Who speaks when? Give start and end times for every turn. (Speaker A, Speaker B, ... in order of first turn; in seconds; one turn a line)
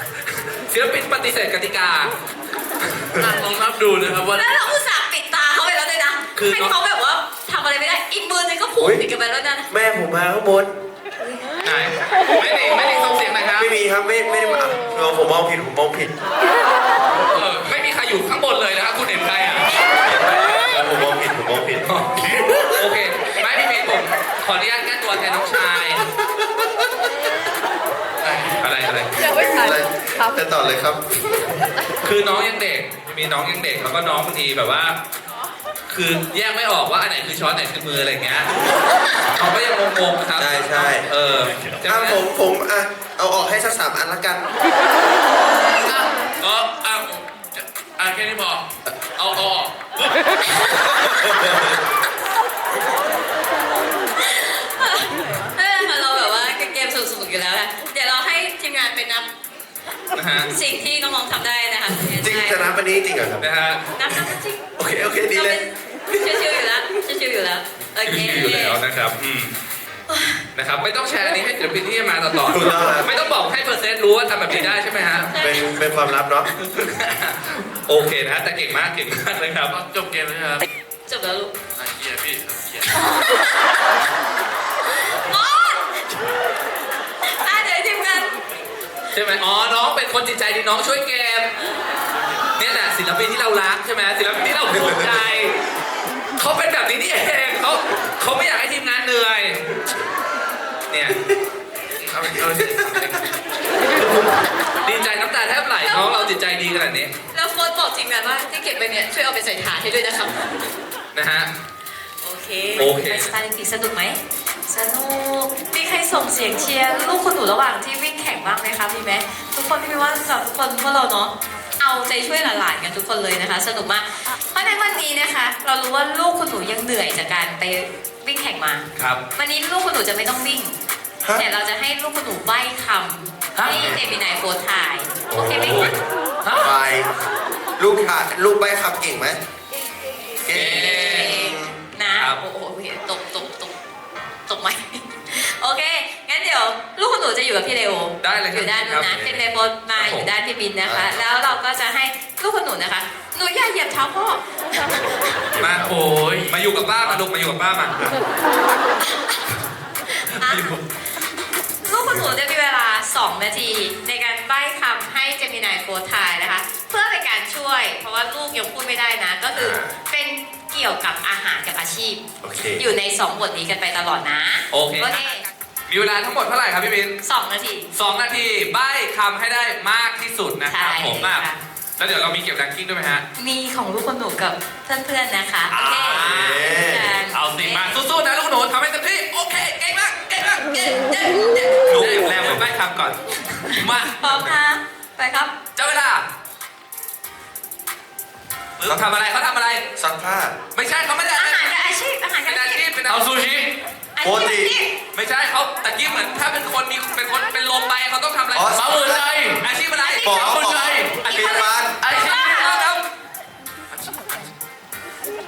Speaker A: 0.2-2.1
Speaker B: 3.2-4.7
Speaker C: 4.3-9.7
Speaker A: 6.4-6.7
Speaker D: 8.8-9.1
Speaker D: 9.7-10.7
Speaker A: 11.6-13.7
Speaker D: 13.6-16.2
Speaker B: 17.3-17.6
Speaker A: 17.6-20.8
Speaker D: 20.5-22.8
Speaker A: 21.8-26.1
Speaker D: 26.4-26.7
Speaker B: 28.2-28.6
Speaker A: 28.6-29.2
Speaker D: 29.4-31.7
Speaker A: 32.0-35.0
Speaker A: 35.9-38.5
Speaker A: 39.3-42.2
Speaker D: 40.4-41.1
Speaker D: 41.9-44.5
Speaker B: 45.6-49.9
Speaker D: 50.7-51.8
Speaker C: 54.2-59.3
Speaker A: 60.1-60.5
Speaker C: 60.5-62.7
Speaker D: 62.1-63.5
Speaker A: 63.4-63.9
Speaker C: 63.9-64.6
Speaker D: 64.8-65.6
Speaker C: 65.3-68.8
Speaker A: 68.0-69.5
Speaker C: 70.1-70.5
Speaker A: 70.5-75.3
Speaker D: 72.5-73.1
Speaker C: 75.3-75.8
Speaker D: 75.4-76.5
Speaker A: 76.6-79.8
Speaker B: 79.7-80.7
Speaker C: 81.1-81.5
Speaker B: 81.8-83.0
Speaker C: 82.9-83.7
Speaker C: 84.8-86.2
Speaker C: 87.2-88.4
Speaker A: 89.1-91.5
Speaker B: 92.2-92.5
Speaker A: 92.6-95.6
Speaker A: 96.4-99.6
Speaker A: 100.9-101.2
Speaker B: 102.0-103.4
Speaker A: 104.0-104.3
Speaker A: 104.8-107.1
Speaker C: 105.8-106.4
Speaker C: 107.3-110.7
Speaker A: 111.1-111.5
Speaker C: 112.2-130.8
Speaker A: 112.8-113.3
Speaker C: 131.3-135.9
Speaker A: 133.6-134.0
Speaker D: 133.7-134.0
Speaker D: 135.3-135.9
Speaker A: 135.3-136.7
Speaker D: 136.6-137.1
Speaker D: 137.8-139.4
Speaker D: 140.4-141.8
Speaker A: 140.5-141.4
Speaker C: 140.5-143.8
Speaker A: 142.1-142.4
Speaker C: 144.5-155.3
Speaker A: 148.2-150.3
Speaker D: 150.8-151.3
Speaker D: 155.5-155.9
Speaker A: 155.6-155.9
Speaker B: 155.8-157.2
Speaker A: 156.5-158.0
Speaker C: 160.2-160.8
Speaker C: 161.8-172.2
Speaker D: 169.5-169.9
Speaker D: 172.4-172.8
Speaker C: 172.8-175.4
Speaker A: 174.7-175.3
Speaker A: 175.9-177.2
Speaker C: 177.2-177.9
Speaker A: 177.9-181.5
Speaker C: 180.7-181.6
Speaker A: 182.0-183.2
Speaker C: 183.4-187.9
Speaker A: 185.7-186.8
Speaker D: 186.1-187.2
Speaker A: 187.3-194.3
Speaker C: 193.7-195.5
Speaker A: 195.8-196.2
Speaker A: 198.8-199.8
Speaker D: 200.0-200.6
Speaker A: 200.7-201.7
Speaker C: 201.3-202.9
Speaker A: 202.4-203.3
Speaker B: 203.1-203.8
Speaker C: 204.2-205.0
Speaker D: 204.2-204.8
Speaker A: 205.1-210.6
Speaker D: 208.5-209.4
Speaker B: 208.8-209.6
Speaker C: 210.0-212.9
Speaker D: 210.2-212.0
Speaker B: 210.2-211.2
Speaker A: 211.2-213.1
Speaker B: 212.0-212.7
Speaker B: 213.9-214.4